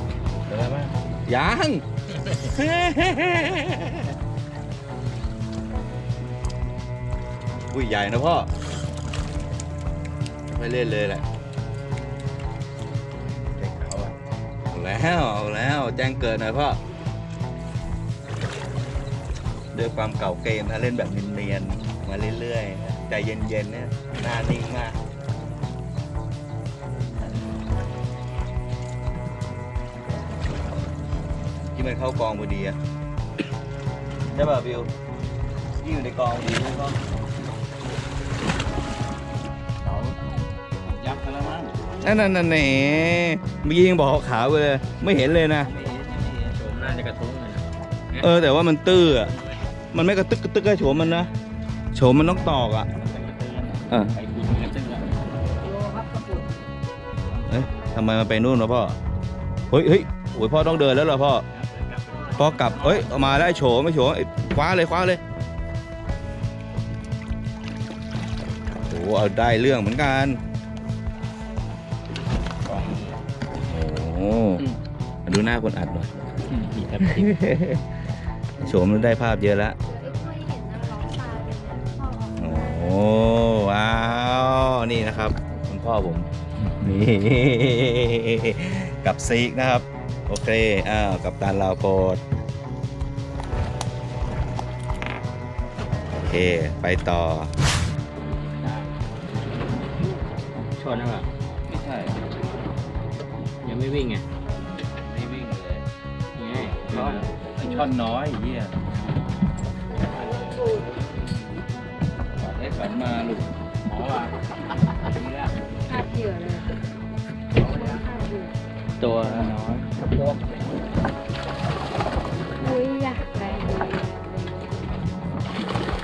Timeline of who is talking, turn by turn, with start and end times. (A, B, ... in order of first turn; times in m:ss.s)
0:00.5-0:00.9 A
0:01.3-0:01.8 B
0:02.4-0:04.1 B
0:07.7-0:08.5 B
0:10.5-0:11.2 B
0:13.7-0:14.1 B
0:13.7-0:14.0 A
0:14.7-0:16.8 B
0:19.7-0:25.0 B
0:31.7-0:32.8 B
0:34.3-0:34.9 B
0:35.8-0:37.0 B
0:39.8-0:40.2 A
0:40.8-0:41.8 A
0:42.0-0:45.7 B
0:45.6-0:48.3 A
0:48.2-0:49.3 B
0:49.0-0:49.6 A
0:49.9-0:51.3 B
0:51.9-0:52.9 B
0:52.9-0:55.1 A
0:53.9-0:54.2 B
0:55.6-0:56.5 C
0:57.5-0:59.0 B
0:59.7-1:01.4 B
1:01.5-1:03.1 A
1:02.4-1:05.2 B
1:08.9-1:10.4 B
1:12.6-1:13.2 A
1:13.7-1:14.6 B
1:15.3-1:16.3 B
1:16.5-1:17.5 A
1:17.1-1:17.8 B
1:18.6-1:19.8 B
1:19.8-1:22.8 C
1:22.4-1:32.2 B
1:36.2-1:37.5 B
1:38.4-1:39.1 A
1:40.8-1:41.3 A
1:41.7-1:42.2 B
1:43.6-1:44.2 A
1:44.9-1:45.9 B
1:46.4-1:47.3 A
1:46.9-1:48.7 B
1:47.6-1:47.9 C
1:48.9-1:49.4 A
1:50.0-1:51.2 A
1:50.3-1:50.8 C
1:52.4-1:53.5 B
1:53.8-1:54.3 A
1:55.1-1:55.5 A
1:55.9-1:56.7 C
1:57.5-1:58.1 A
1:57.6-1:58.5 C
1:59.0-1:59.9 B
1:59.0-2:00.4 A
2:02.6-2:05.3 C